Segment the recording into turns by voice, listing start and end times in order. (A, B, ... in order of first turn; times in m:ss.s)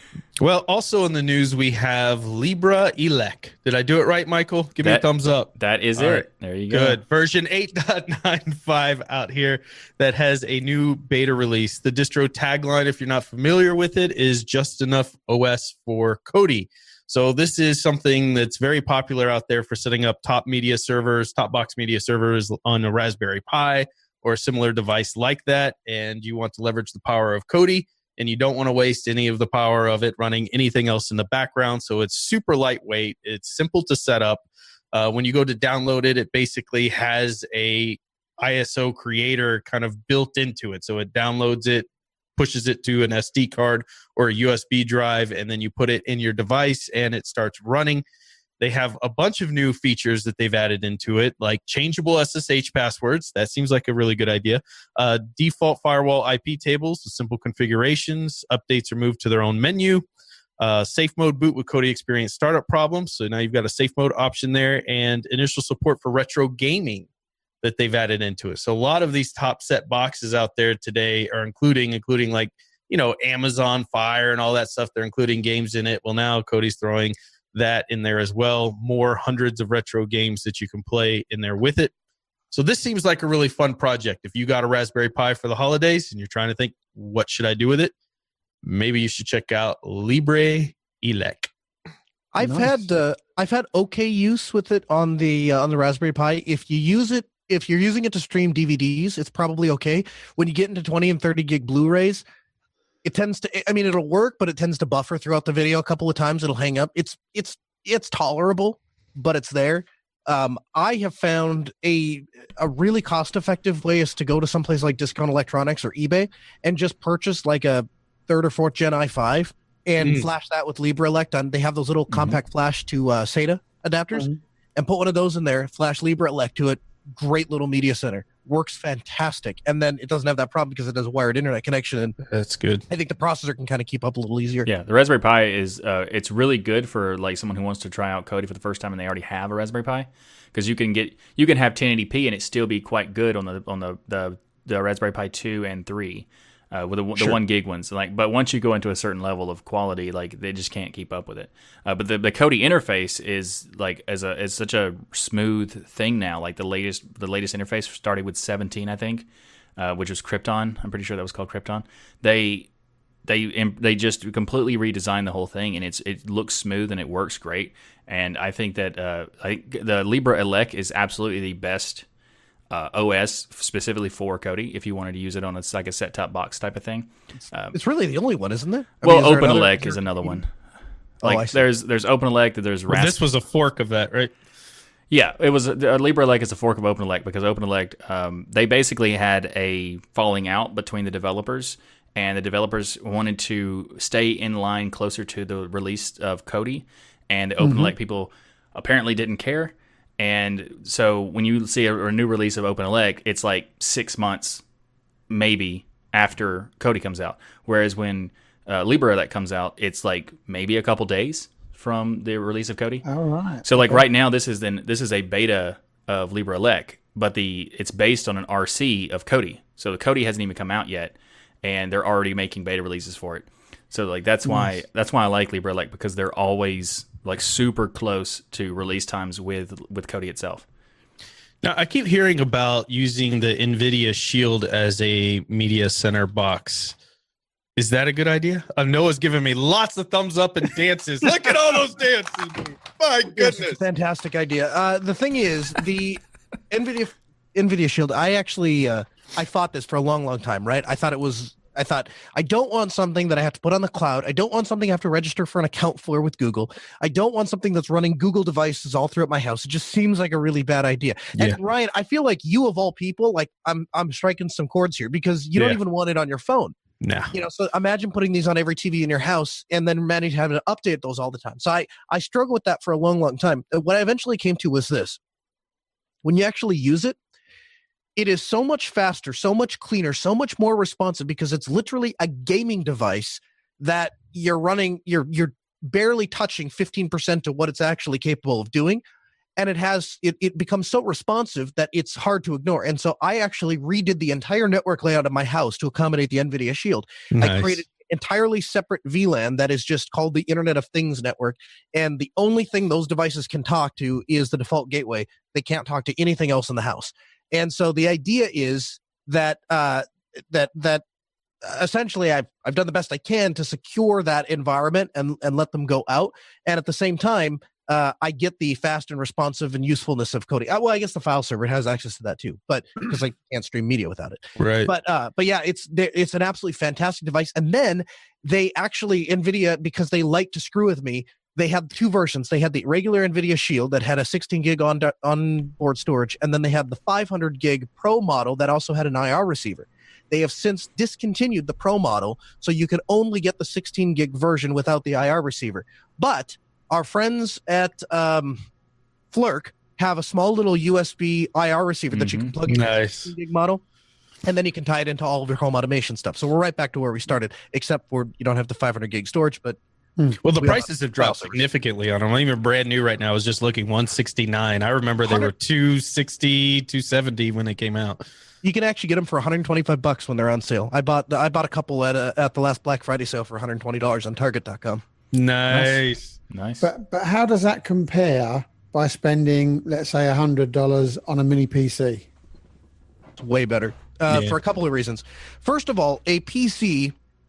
0:00.4-0:48.0 A
0:04.8-0:07.0 B
0:48.6-1:00.0 A
1:00.6-1:07.1 A
1:07.6-1:21.9 A
1:22.5-1:27.9 A
1:28.6-1:31.5 A
1:32.3-1:42.2 C
1:32.4-1:32.8 D
1:43.0-2:12.2 C
2:00.0-2:00.3 A
2:12.3-2:12.8 A
2:12.9-2:14.7 C
2:14.6-2:42.7 B
2:43.2-2:52.0 B
2:52.7-2:57.8 B
2:57.7-3:00.3 C
2:59.0-3:00.5 B
3:01.2-3:01.6 C
3:01.2-3:03.2 B
3:02.9-3:04.3 A
3:05.1-3:24.6 B
3:17.6-3:17.9 D
3:25.3-3:33.0 B
3:33.0-3:34.0 D
3:33.6-3:50.6 B
3:51.6-3:57.0 A
3:57.8-4:03.8 A
4:03.3-4:26.7 C
4:27.0-4:27.3 A
4:27.3-4:35.2 C
4:36.2-4:37.2 C
4:38.2-4:49.0 C
4:49.6-5:11.0 C
4:57.3-4:57.8 A
5:11.6-5:48.6 C
5:24.6-5:24.9 A
5:49.3-5:53.8 C
5:52.1-5:52.5 B
5:52.7-5:53.3 A
5:54.4-5:59.8 C
6:00.4-6:08.2 A
6:00.5-6:01.6 C
6:05.2-6:05.5 C
6:08.6-6:15.0 C
6:15.3-6:16.2 A
6:15.7-6:16.9 B
6:16.8-6:22.3 D
6:23.4-6:27.1 C
6:24.3-6:24.6 A